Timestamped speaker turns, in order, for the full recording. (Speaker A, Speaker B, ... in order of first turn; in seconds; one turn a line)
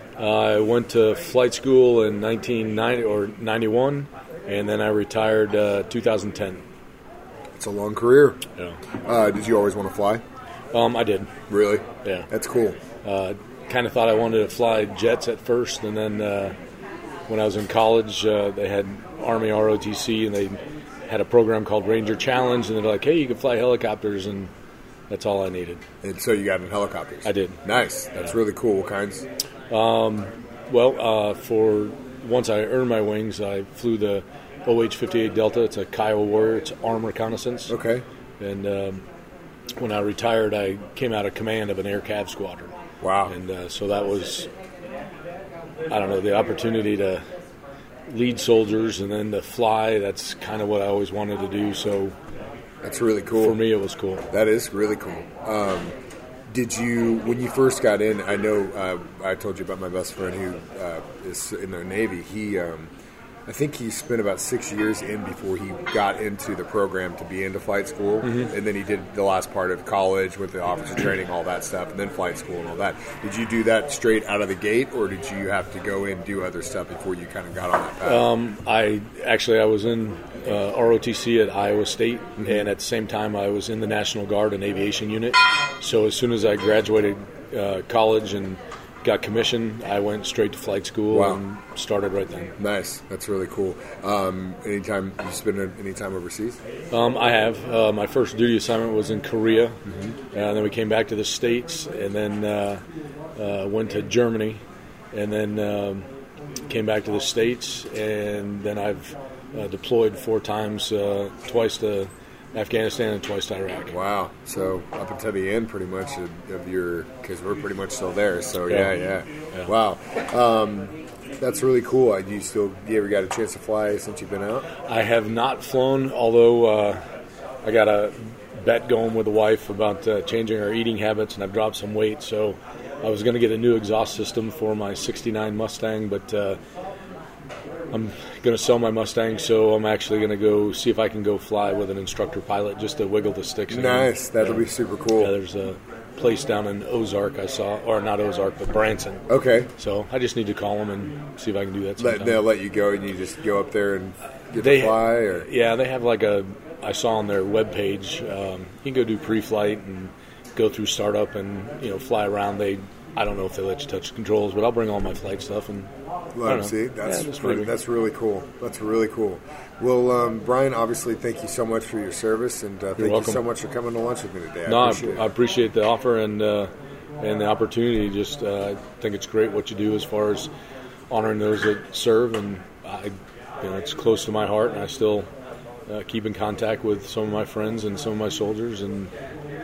Speaker A: 0.2-6.6
Speaker B: 7.6-8.4
Speaker B: 9.0-10.2
Speaker A: 10.7-11.3
Speaker B: 11.5-12.8
Speaker A: 13.0-16.5
Speaker A: 17.3-24.5
Speaker A: 25.1-25.8
Speaker B: 26.0-29.2
Speaker A: 27.2-27.6
Speaker A: 29.7-37.7
Speaker B: 37.7-38.0
Speaker A: 38.4-39.0
Speaker A: 39.8-42.7
Speaker B: 43.0-43.4
Speaker A: 43.3-44.5
Speaker A: 45.9-47.2
Speaker A: 48.1-52.1
Speaker B: 52.8-53.6
Speaker A: 53.4-54.2
Speaker B: 54.3-55.9
Speaker B: 56.5-62.9
Speaker B: 63.5-78.3
Speaker A: 78.0-92.5
Speaker B: 91.1-91.4
Speaker B: 92.6-96.6
Speaker A: 96.9-99.8
Speaker A: 100.3-102.8
Speaker A: 103.3-104.6
Speaker A: 105.1-106.0
Speaker A: 106.7-113.9
Speaker B: 113.9-124.7
Speaker A: 118.6-119.0
Speaker A: 124.9-127.0
Speaker A: 127.6-136.6
Speaker A: 137.9-149.2
Speaker B: 143.7-145.3
Speaker B: 149.3-149.7
Speaker A: 149.8-152.4
Speaker B: 152.0-155.5
Speaker A: 154.5-165.9
Speaker B: 166.3-175.3
Speaker A: 166.4-167.7
Speaker A: 173.0-173.4
Speaker A: 174.7-180.5
Speaker A: 181.1-185.3
Speaker A: 185.9-189.1